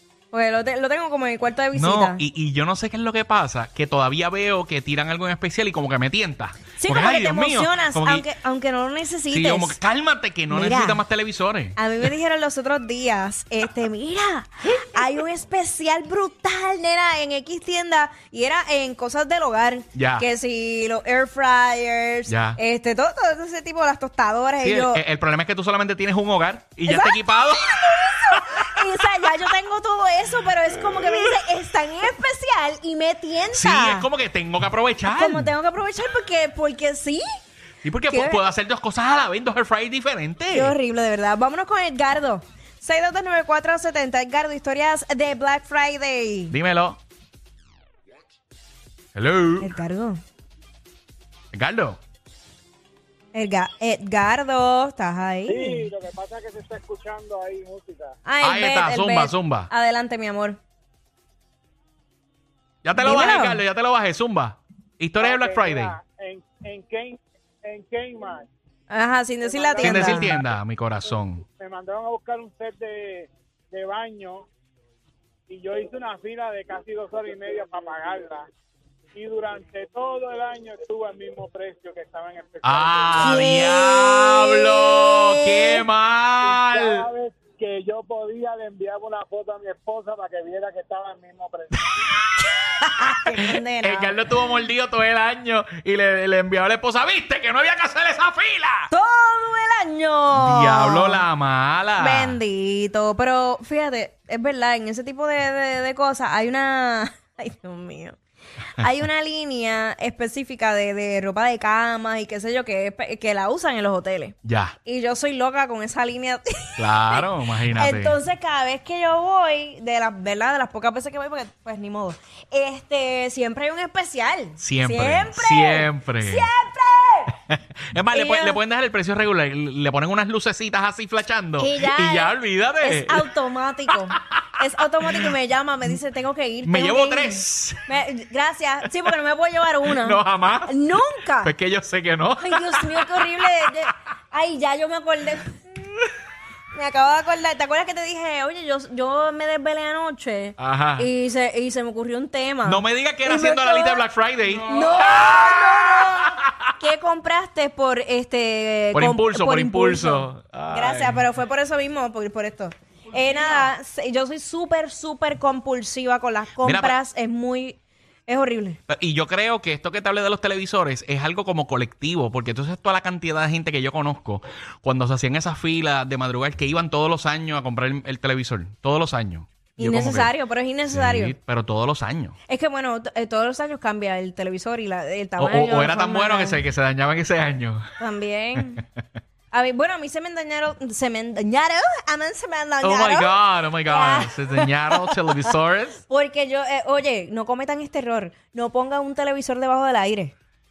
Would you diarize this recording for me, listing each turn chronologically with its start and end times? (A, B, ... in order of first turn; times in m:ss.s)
0:00.3-0:02.2 A
0:01.7-0:08.3 B
0:06.8-0:09.8 A
0:09.3-0:11.8 B
0:10.5-0:11.0 A
0:11.8-0:25.0 A
0:19.9-0:20.2 B
0:22.3-0:22.6 B
0:24.6-0:28.8 B
0:26.9-0:34.1 A
0:33.5-0:35.5 B
0:35.1-0:37.2 A
0:37.8-0:40.7 B
0:38.1-0:38.4 A
0:40.5-0:46.5 A
0:46.5-0:47.0 B
0:49.1-0:49.7 B
0:49.6-0:50.2 A
0:51.5-0:52.0 B
0:53.3-0:55.9 A
0:55.5-0:58.2 C
0:58.2-1:00.6 A
0:58.4-0:59.7 B
1:02.8-1:05.9 B
1:03.0-1:03.6 A
1:05.2-1:08.5 C
1:08.9-1:10.4 A
1:09.5-1:10.4 C
1:09.8-1:11.4 B
1:11.6-1:14.5 C
1:15.5-1:18.5 C
1:19.1-1:23.5 C
1:22.6-1:27.1 B
1:23.2-1:25.8 A
1:26.4-1:31.9 C
1:31.9-1:32.5 B
1:32.4-1:34.3 A
1:33.3-1:38.9 B
1:38.9-1:41.2 A
1:40.3-1:42.4 B
1:42.0-1:48.2 A
1:48.8-2:07.4 A
1:54.4-1:54.7 B
1:56.8-1:58.2 B
2:04.6-2:06.5 B
2:07.5-2:13.3 B
2:08.1-2:08.6 A
2:11.6-2:21.5 A
2:13.9-2:14.4 B
2:16.6-2:17.8 B
2:19.8-2:20.8 B
2:21.4-2:23.2 B
2:22.4-2:25.6 A
2:26.7-2:34.0 A
2:30.6-2:31.1 B
2:32.6-2:36.7 B
2:34.6-2:48.8 A
2:38.9-2:41.2 B
2:46.6-2:46.9 B
2:48.9-3:00.3 B
2:59.8-3:01.3 A
3:00.9-3:02.3 B
3:02.5-3:06.6 A
3:05.4-3:07.8 B
3:08.0-3:08.8 A
3:09.5-3:15.4 A
3:12.8-3:16.0 B
3:16.1-3:20.3 A